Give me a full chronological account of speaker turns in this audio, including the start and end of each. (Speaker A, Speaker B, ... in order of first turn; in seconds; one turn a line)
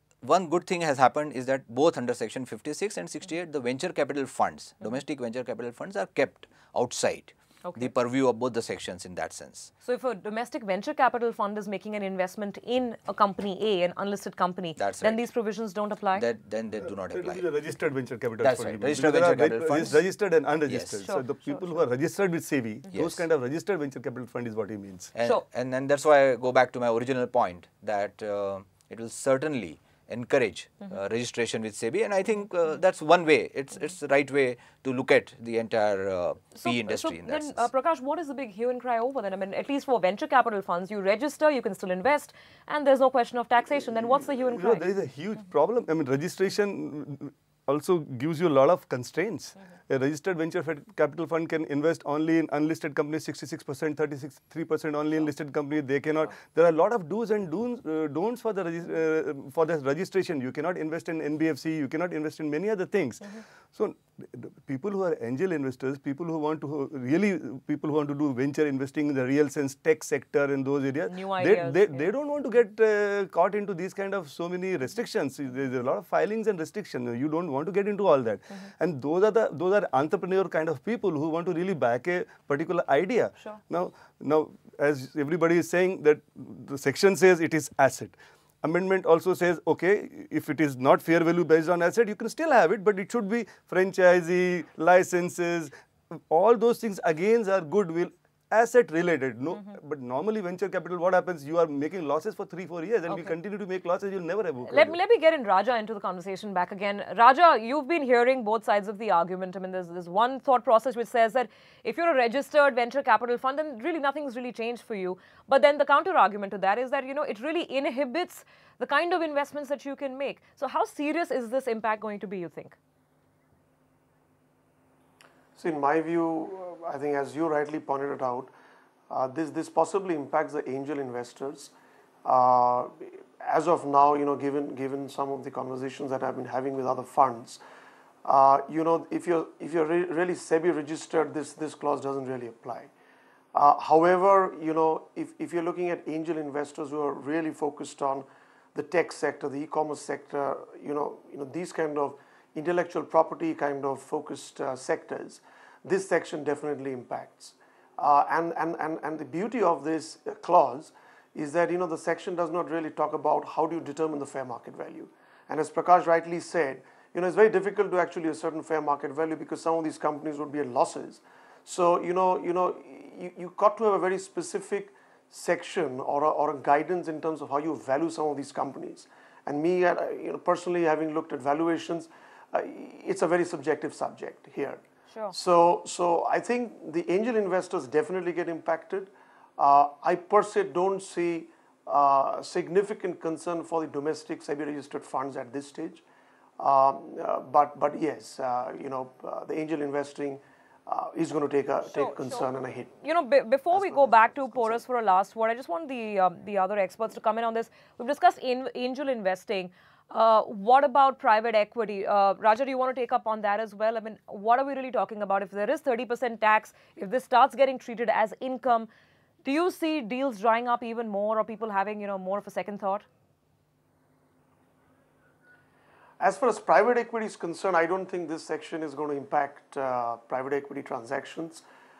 Speaker A: 0.2-9.7
Speaker B: 9.8-16.2
Speaker A: 14.8-15.2
Speaker A: 16.1-17.4
Speaker C: 17.1-25.1
Speaker A: 18.4-20.0
Speaker A: 20.7-21.0
Speaker A: 22.9-23.2
Speaker A: 25.1-37.7
Speaker B: 36.5-44.8
Speaker C: 44.5-105.0
Speaker B: 71.1-72.1
Speaker B: 104.7-122.8
Speaker D: 125.5-128.5
Speaker D: 129.1-131.7
Speaker D: 132.2-137.6
Speaker D: 138.2-142.9
Speaker D: 143.5-196.0
Speaker D: 196.6-202.9
Speaker B: 201.9-218.9
Speaker D: 203.7-204.8
Speaker B: 219.4-223.0
Speaker D: 226.2-231.6